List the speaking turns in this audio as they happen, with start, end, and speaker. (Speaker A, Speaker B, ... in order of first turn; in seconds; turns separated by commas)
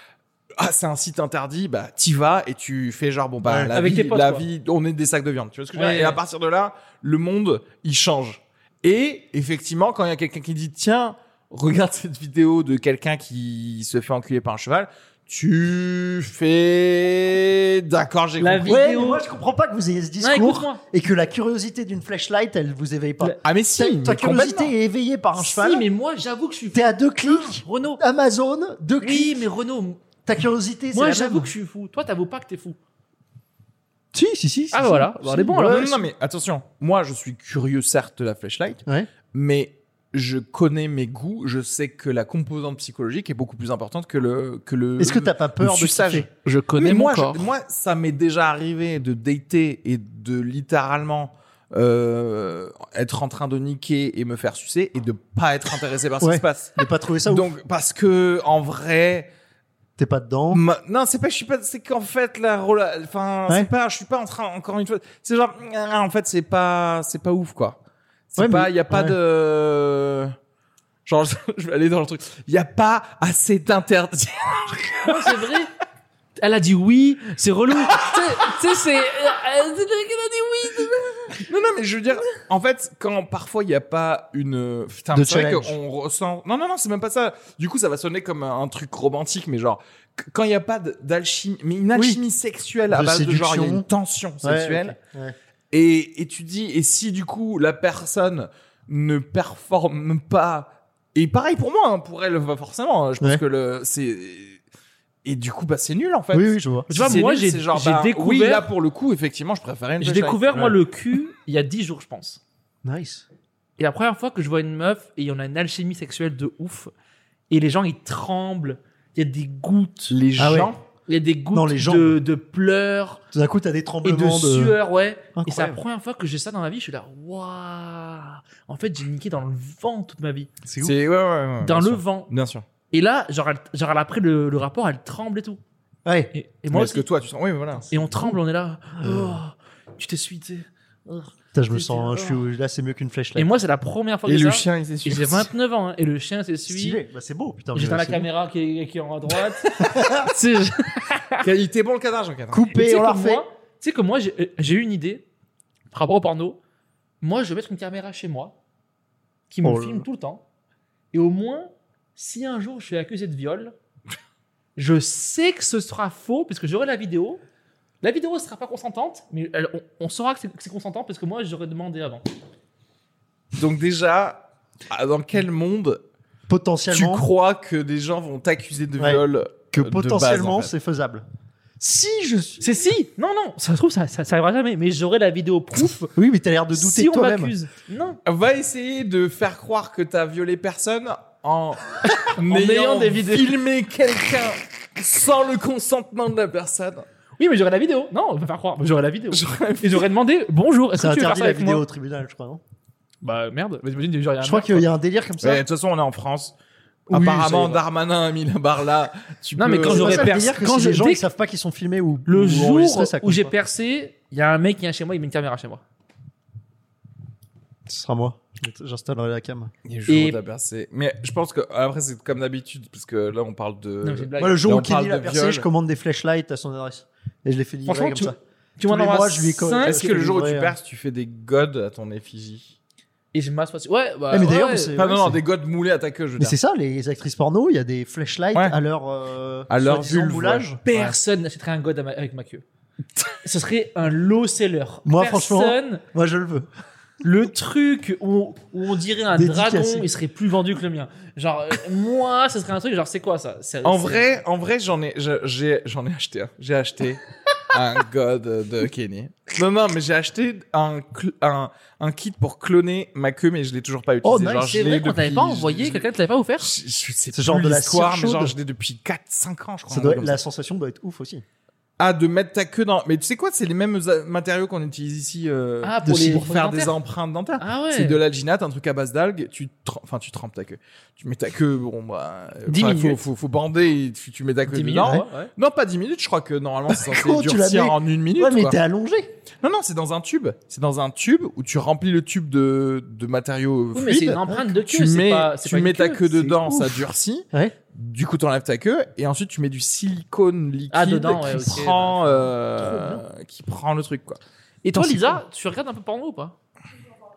Speaker A: 0.6-18.8, Speaker B: 3.4-3.8, Speaker C: 3.7-4.4, Speaker C: 5.7-6.2, Speaker C: 18.4-19.2, Speaker B: 18.6-25.9, Speaker C: 20.2-20.8, Speaker A: 23.4-24.7, Speaker C: 25.4-28.0, Speaker B: 26.7-29.4, Speaker C: 29.0-30.0, Speaker B: 30.2-31.5, Speaker C: 30.9-32.8, Speaker B: 34.1-36.0, Speaker C: 34.7-36.0, Speaker A: 35.6-59.3, Speaker B: 45.0-46.3, Speaker C: 46.4-47.4, Speaker B: 56.2-57.5, Speaker B: 60.0-60.6, Speaker A: 60.5-67.8, Speaker A: 68.3-70.3, Speaker B: 68.4-69.2, Speaker A: 71.0-75.5, Speaker C: 75.0-75.7, Speaker C: 76.4-81.4, Speaker A: 81.4-95.0, Speaker B: 85.1-85.8, Speaker B: 91.9-92.2, Speaker B: 92.9-93.8, Speaker B: 94.4-95.3, Speaker A: 95.7-104.6, Speaker A: 105.2-110.6, Speaker B: 106.3-107.2, Speaker C: 106.9-108.7, Speaker C: 110.0-112.4, Speaker B: 112.8-113.2, Speaker C: 113.8-116.9, Speaker C: 117.5-120.2, Speaker A: 120.1-120.8, Speaker B: 120.4-120.7, Speaker C: 121.1-123.2, Speaker B: 121.5-122.2, Speaker B: 123.3-124.8, Speaker C: 124.0-130.5, Speaker B: 125.4-125.8, Speaker B: 130.7-130.9, Speaker A: 130.8-132.7, Speaker C: 131.6-132.3, Speaker C: 132.9-135.6, Speaker B: 136.0-136.3, Speaker C: 136.3-137.1, Speaker A: 136.7-138.0, Speaker C: 137.9-142.4, Speaker B: 139.0-139.4, Speaker B: 141.5-143.5, Speaker C: 143.3-147.0, Speaker A: 144.2-145.5, Speaker B: 146.7-148.3, Speaker C: 147.7-151.4, Speaker B: 149.8-150.3, Speaker A: 151.4-152.7, Speaker B: 152.5-153.4, Speaker C: 152.7-155.2, Speaker C: 155.9-156.6, Speaker C: 157.2-158.5, Speaker C: 159.5-160.4, Speaker B: 159.6-160.1, Speaker C: 161.1-163.7, Speaker C: 164.8-167.4, Speaker C: 168.0-172.3, Speaker A: 173.6-176.0, Speaker B: 176.5-177.2, Speaker A: 176.9-180.7, Speaker B: 179.0-181.2, Speaker B: 181.8-182.6, Speaker C: 182.6-186.1, Speaker B: 186.2-187.5, Speaker C: 186.7-188.2, Speaker A: 188.2-197.1, Speaker C: 192.1-193.5, Speaker C: 197.4-201.8, Speaker A: 199.3-200.1, Speaker B: 200.9-202.6, Speaker C: 203.2-204.9, Speaker B: 204.4-205.6, Speaker A: 205.4-206.5, Speaker B: 207.1-207.8, Speaker A: 207.1-210.3, Speaker C: 209.6-211.2, Speaker B: 209.8-213.5, Speaker C: 212.3-215.8, Speaker B: 217.8-219.7, Speaker A: 219.8-225.7, Speaker C: 220.1-220.4, Speaker C: 224.0-224.7, Speaker B: 224.4-230.7, Speaker C: 227.9-230.3, Speaker A: 229.8-232.8, Speaker C: 233.3-235.0, Speaker B: 234.3-235.4, Speaker A: 234.9-236.6, Speaker B: 236.4-240.8, Speaker A: 239.7-241.1, Speaker C: 240.8-242.6, Speaker C: 243.4-246.0, Speaker B: 245.0-246.7, Speaker C: 247.2-254.3, Speaker B: 249.3-250.1, Speaker A: 253.8-266.0, Speaker B: 264.2-264.7, Speaker C: 264.4-266.7, Speaker A: 266.6-270.4, Speaker B: 267.3-268.6, Speaker B: 269.9-271.4, Speaker A: 272.0-288.8, Speaker C: 275.8-276.9, Speaker B: 276.0-276.4, Speaker C: 277.6-278.2, Speaker C: 282.7-283.2, Speaker C: 284.7-285.5, Speaker B: 286.9-289.3, Speaker A: 289.6-304.4, Speaker C: 293.9-296.5, Speaker B: 296.5-297.0, Speaker C: 300.9-303.2, Speaker C: 304.8-306.5, Speaker A: 305.1-305.4